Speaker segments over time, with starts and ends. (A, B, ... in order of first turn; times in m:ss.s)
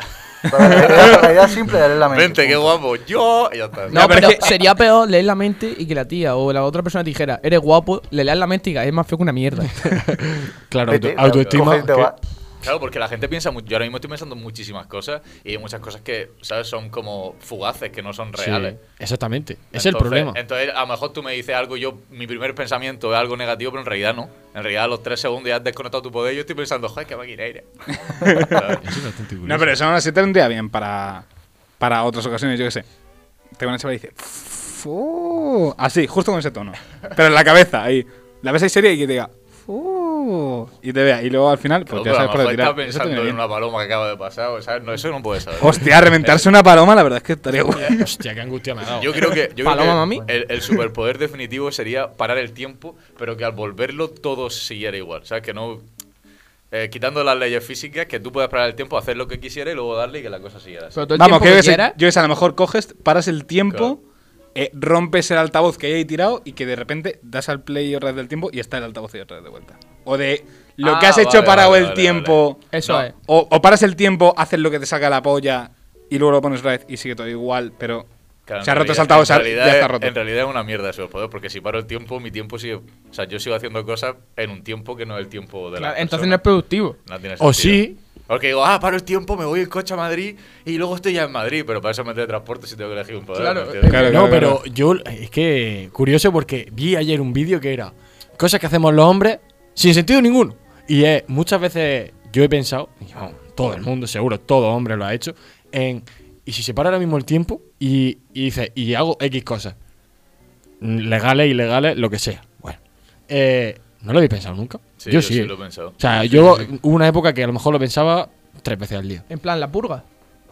0:00.5-0:02.8 A
0:00.6-0:04.5 B
0:03.9-0:09.8 C
0:04.0-0:04.4 D
0:09.8-0:12.1 E
0:10.9-0:12.2 A
0:11.2-0:11.7 B
0:12.6-0:18.8 B
0:18.4-0:20.4 E
0:19.7-0:28.8 B
0:28.8-0:29.8 E
0:29.4-0:31.2 D
0:31.8-0:32.8 D
0:33.6-0:43.4 D
0:41.9-0:46.5 B
0:45.6-0:47.8 D
0:47.8-0:48.0 B
0:47.9-0:49.2 E
0:48.9-0:55.9 B
0:49.6-0:50.2 C
0:56.7-1:01.1 B
1:01.0-1:02.0 C
1:01.2-1:04.0 D
1:03.7-1:04.0 B
1:04.6-1:18.1 D
1:10.8-1:13.0 B
1:12.7-1:13.1 C
1:18.5-1:26.4 B
1:18.6-1:20.1 D
1:25.8-1:27.0 C
1:27.0-1:34.2 B
1:27.4-1:28.0 E
1:33.3-1:34.4 C
1:33.9-1:34.6 D
1:34.0-1:49.8 E
1:50.8-1:59.2 E
1:55.0-1:56.7 B
1:59.3-2:00.0 C